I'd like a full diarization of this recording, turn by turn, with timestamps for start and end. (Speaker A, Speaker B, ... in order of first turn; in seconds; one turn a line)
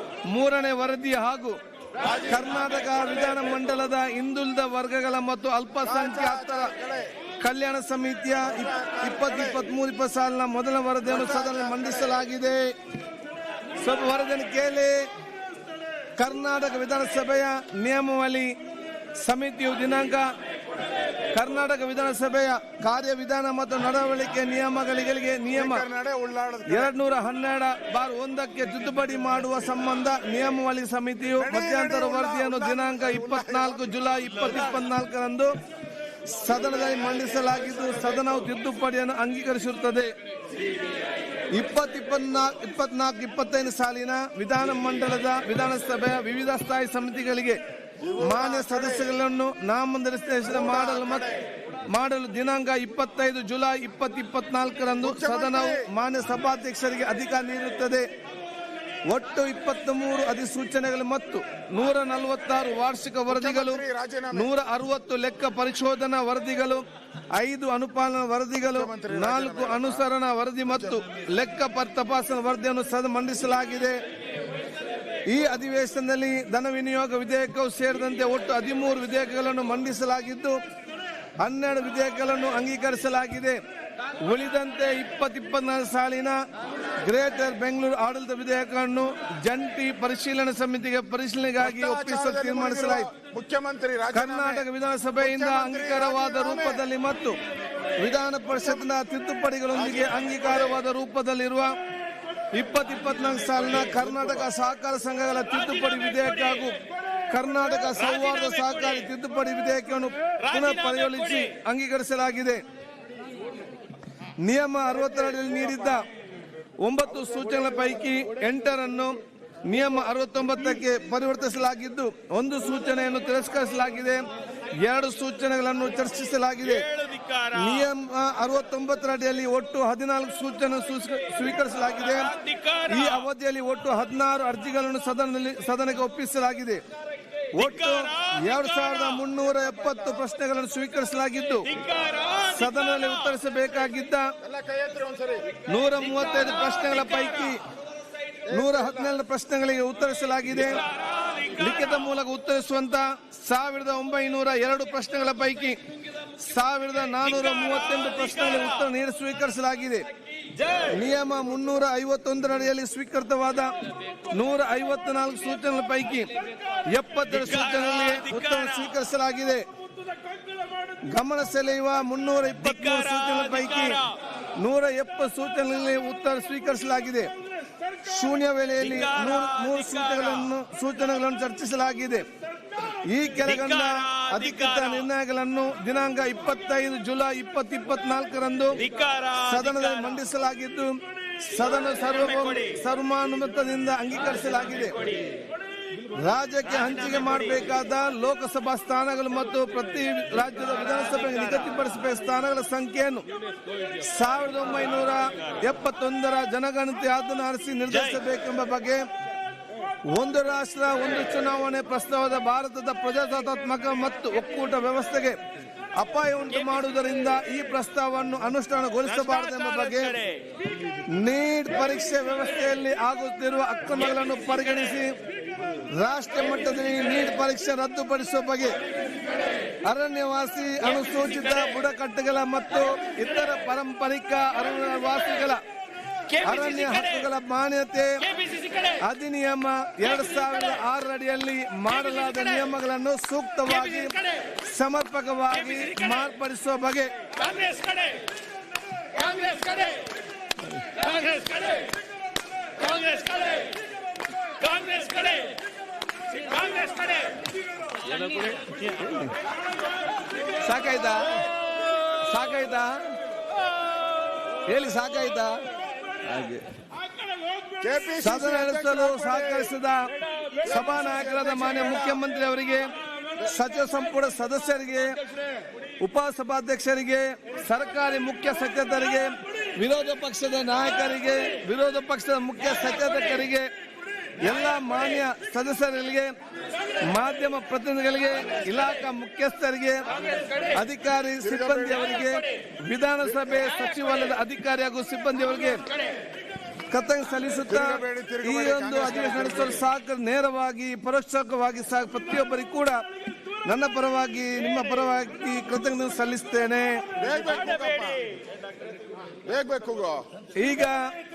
Speaker A: 0.3-1.6
Speaker B: 2.0-3.4
Speaker A: 2.2-6.7
Speaker B: 5.8-7.1
Speaker A: 7.4-12.7
Speaker B: 8.4-9.6
Speaker B: 11.1-12.2
Speaker A: 13.8-15.0
Speaker A: 16.2-18.5
Speaker A: 19.2-20.3
Speaker A: 21.3-25.8
Speaker B: 25.5-26.9
Speaker A: 26.7-35.5
Speaker B: 31.4-34.0
Speaker A: 36.3-40.1
Speaker B: 36.5-38.2
Speaker A: 41.5-47.6
Speaker B: 48.0-49.1
Speaker A: 48.2-51.3
Speaker B: 50.5-51.4
Speaker A: 51.9-58.0
Speaker B: 55.0-55.9
Speaker A: 59.1-63.8
Speaker B: 63.3-64.5
Speaker A: 64.3-74.0
Speaker B: 68.7-70.0
Speaker A: 75.3-80.6
Speaker A: 81.4-83.6
Speaker A: 84.2-86.4
Speaker A: 87.0-93.1
Speaker B: 91.6-94.7
Speaker A: 94.1-97.4
Speaker B: 95.2-96.8
Speaker A: 98.0-101.7
Speaker B: 99.8-100.8
Speaker A: 102.5-106.8
Speaker A: 107.3-112.6
Speaker C: 108.0-109.0
Speaker C: 110.4-111.5
Speaker A: 114.4-116.0
Speaker A: 116.8-124.2
Speaker A: 124.8-126.9
Speaker C: 126.6-127.9
Speaker A: 127.5-136.8
Speaker C: 132.2-133.2
Speaker A: 137.5-141.8
Speaker C: 137.6-139.2
Speaker C: 141.7-143.1
Speaker A: 142.4-144.3
Speaker B: 144.4-145.6
Speaker A: 145.7-147.6
Speaker C: 146.2-147.5
Speaker B: 148.5-149.1
Speaker A: 148.5-150.8
Speaker C: 151.1-151.6
Speaker A: 151.5-155.8
Speaker A: 156.4-160.1
Speaker C: 157.3-158.7
Speaker C: 160.5-160.9
Speaker A: 160.9-163.7
Speaker A: 164.3-166.3
Speaker A: 166.8-169.6
Speaker C: 167.3-168.9
Speaker A: 171.1-174.0
Speaker C: 172.6-174.2
Speaker A: 174.6-177.3
Speaker A: 178.0-182.2
Speaker C: 178.8-180.4
Speaker A: 183.1-195.0
Speaker C: 183.4-185.0
Speaker C: 188.8-190.2
Speaker C: 192.0-192.8
Speaker A: 196.2-203.2
Speaker C: 196.8-197.4
Speaker A: 204.0-209.0
Speaker A: 210.1-215.4
Speaker A: 216.0-220.2
Speaker C: 219.1-220.4
Speaker A: 221.1-225.2
Speaker A: 225.9-228.8
Speaker A: 229.8-235.6
Speaker C: 236.3-237.2
Speaker A: 236.4-238.2
Speaker C: 238.3-239.0
Speaker A: 239.0-247.1
Speaker C: 243.9-244.3
Speaker C: 245.7-246.1
Speaker C: 247.4-248.2
Speaker C: 249.1-250.0
Speaker C: 251.0-251.8
Speaker C: 252.8-253.7
Speaker C: 254.6-255.6
Speaker C: 256.3-257.4
Speaker C: 258.0-258.8
Speaker A: 258.8-259.3
Speaker A: 260.6-261.4
Speaker A: 262.1-263.1
Speaker A: 264.6-265.6
Speaker A: 266.2-266.6
Speaker B: 267.8-269.7
Speaker A: 268.2-270.1
Speaker B: 270.6-272.2
Speaker A: 270.6-272.9
Speaker A: 273.4-275.2
Speaker A: 276.0-283.7
Speaker A: 284.4-286.3
Speaker A: 287.0-290.1
Speaker A: 290.7-295.9
Speaker B: 291.4-292.1
Speaker A: 296.9-303.0
Speaker B: 297.6-299.8
Speaker A: 303.6-307.0
Speaker B: 307.2-308.2
Speaker C: 307.6-308.1
Speaker B: 309.4-310.2
Speaker A: 310.6-311.0